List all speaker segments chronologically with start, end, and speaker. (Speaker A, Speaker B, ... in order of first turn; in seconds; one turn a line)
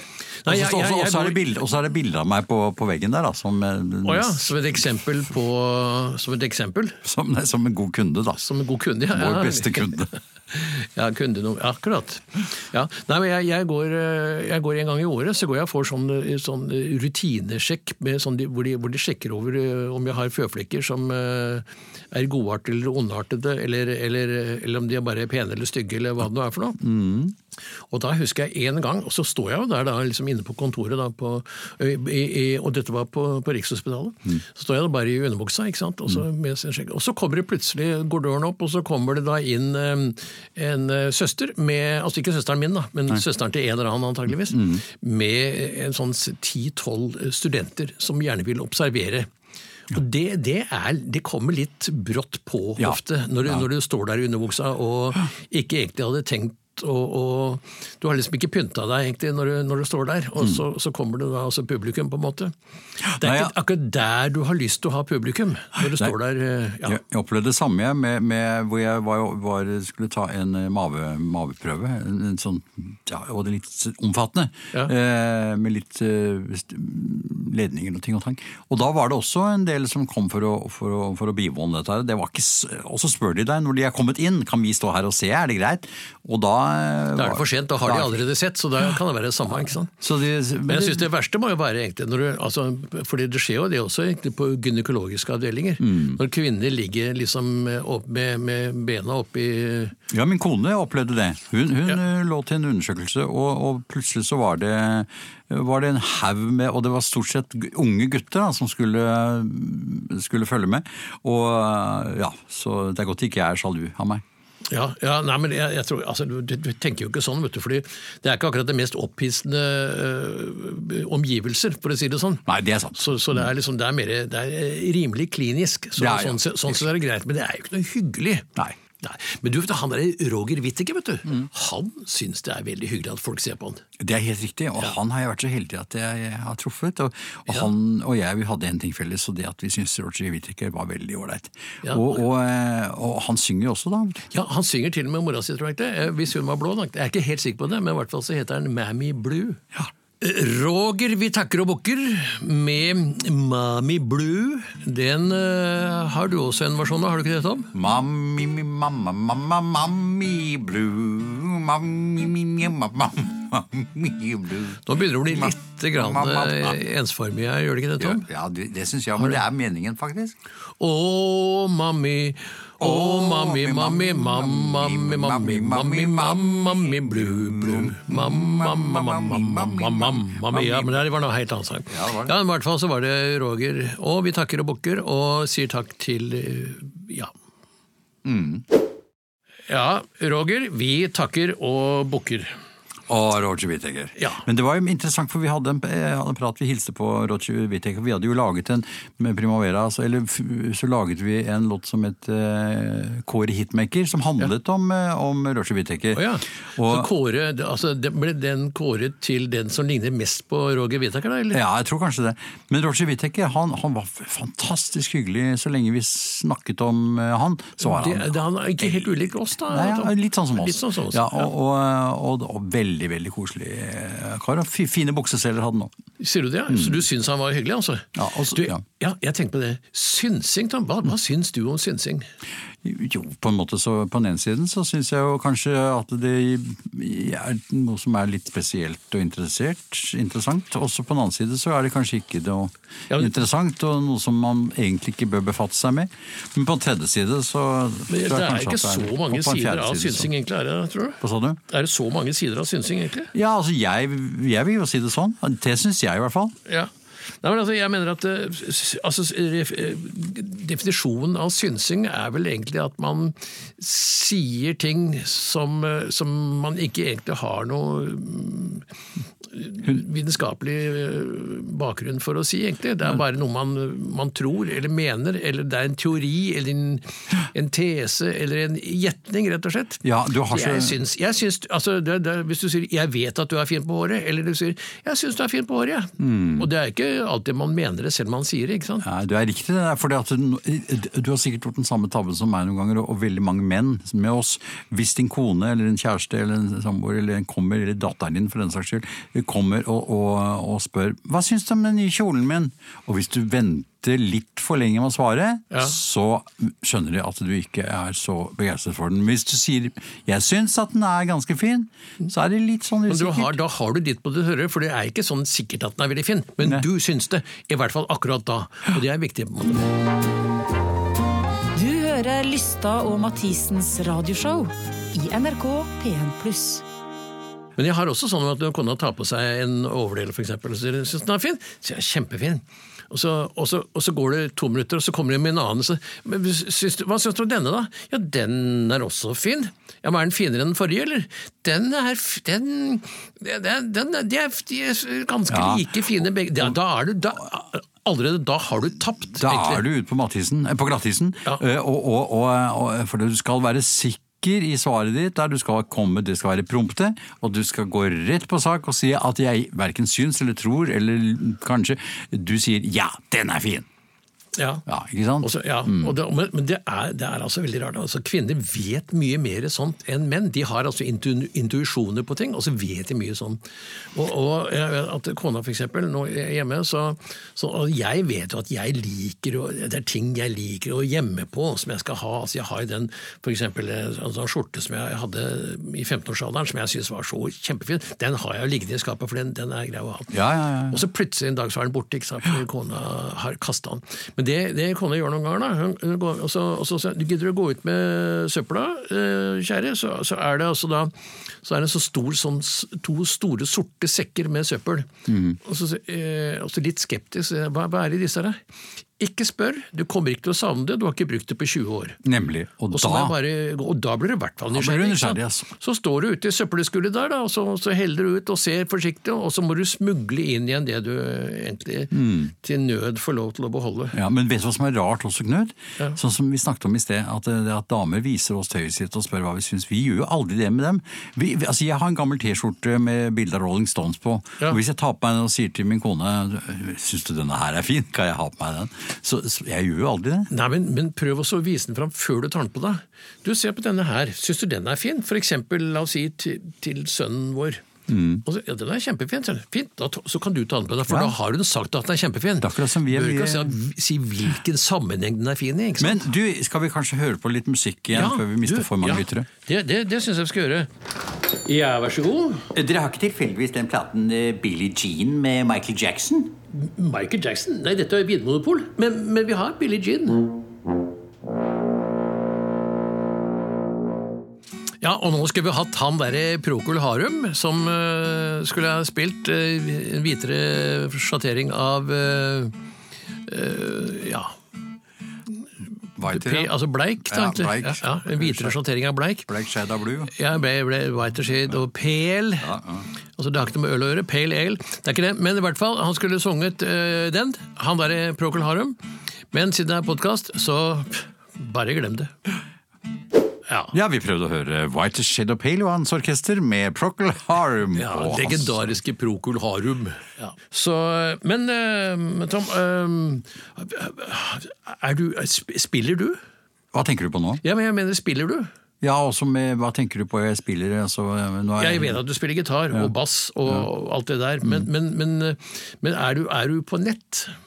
Speaker A: 0.4-1.4
Speaker B: 0.5-4.5
Speaker A: 4.0-7.0
Speaker B: 7.0-8.4
Speaker A: 8.4-26.8
Speaker B: 9.1-10.1
Speaker B: 26.8-27.4
Speaker A: 27.9-49.3
Speaker B: 44.5-44.8
Speaker A: 49.9-62.5
Speaker B: 52.8-53.7
Speaker B: 63.1-63.5
Speaker A: 63.2-67.0
Speaker B: 65.8-66.1
Speaker B: 66.8-88.2
Speaker A: 87.2-89.9
Speaker B: 90.0-91.1
Speaker A: 90.6-100.0
Speaker B: 95.8-96.2
Speaker B: 100.1-114.2
Speaker A: 114.7-128.5
Speaker B: 122.5-123.5
Speaker B: 126.0-126.9
Speaker A: 129.0-133.8
Speaker B: 134.0-144.3
Speaker A: 141.8-142.2
Speaker A: 144.3-149.6
Speaker A: 150.2-157.7
Speaker B: 157.7-166.8
Speaker A: 164.9-168.2
Speaker B: 168.0-170.4
Speaker A: 170.8-187.3
Speaker B: 172.8-181.0
Speaker B: 181.9-182.3
Speaker B: 188.2-188.7
Speaker A: 189.7-192.5
Speaker B: 193.1-206.2
Speaker A: 194.2-194.4
Speaker A: 206.1-211.6
Speaker B: 206.8-207.1
Speaker B: 211.5-225.9
Speaker A: 217.8-221.5
Speaker A: 226.2-232.3
Speaker B: 226.7-227.0
Speaker B: 228.1-228.8
Speaker B: 232.8-250.3
Speaker A: 243.1-243.4
Speaker A: 248.1-253.3
Speaker B: 251.2-251.6
Speaker B: 253.3-256.6
Speaker A: 257.4-268.9
Speaker A: 269.5-289.1
Speaker B: 280.0-281.0
Speaker B: 286.2-286.7
Speaker B: 289.0-313.6
Speaker A: 313.1-319.9
Speaker C: 321.8-326.8
Speaker A: 327.8-349.8
Speaker B: 345.5-346.1
Speaker B: 349.4-363.9
Speaker A: 364.6-364.9
Speaker B: 364.9-366.1
Speaker A: 365.4-373.6
Speaker A: 374.1-390.3
Speaker B: 390.3-391.0
Speaker A: 390.9-401.1
Speaker A: 401.6-405.1
Speaker B: 405.3-405.6
Speaker A: 405.6-408.6
Speaker A: 409.2-412.2
Speaker B: 412.2-413.4
Speaker A: 412.9-424.2
Speaker B: 414.7-415.7
Speaker B: 422.1-422.5
Speaker B: 424.1-440.5
Speaker A: 440.5-447.8
Speaker B: 448.1-448.4
Speaker A: 448.4-456.3
Speaker B: 451.1-451.3
Speaker B: 452.6-453.8
Speaker B: 456.0-459.5
Speaker A: 458.1-460.9
Speaker A: 461.5-462.7
Speaker B: 462.7-466.6
Speaker A: 466.7-470.5
Speaker A: 475.0-482.7
Speaker A: 483.4-484.6
Speaker B: 486.1-488.8
Speaker A: 486.3-489.5
Speaker B: 489.5-490.3
Speaker A: 490.3-492.7
Speaker B: 492.6-493.1
Speaker A: 493.4-499.0
Speaker A: 499.5-502.3
Speaker A: 503.7-503.9
Speaker B: 503.9-508.9
Speaker A: 508.0-516.4
Speaker B: 516.9-517.6
Speaker A: 517.6-518.7
Speaker B: 519.0-522.2
Speaker A: 521.8-527.5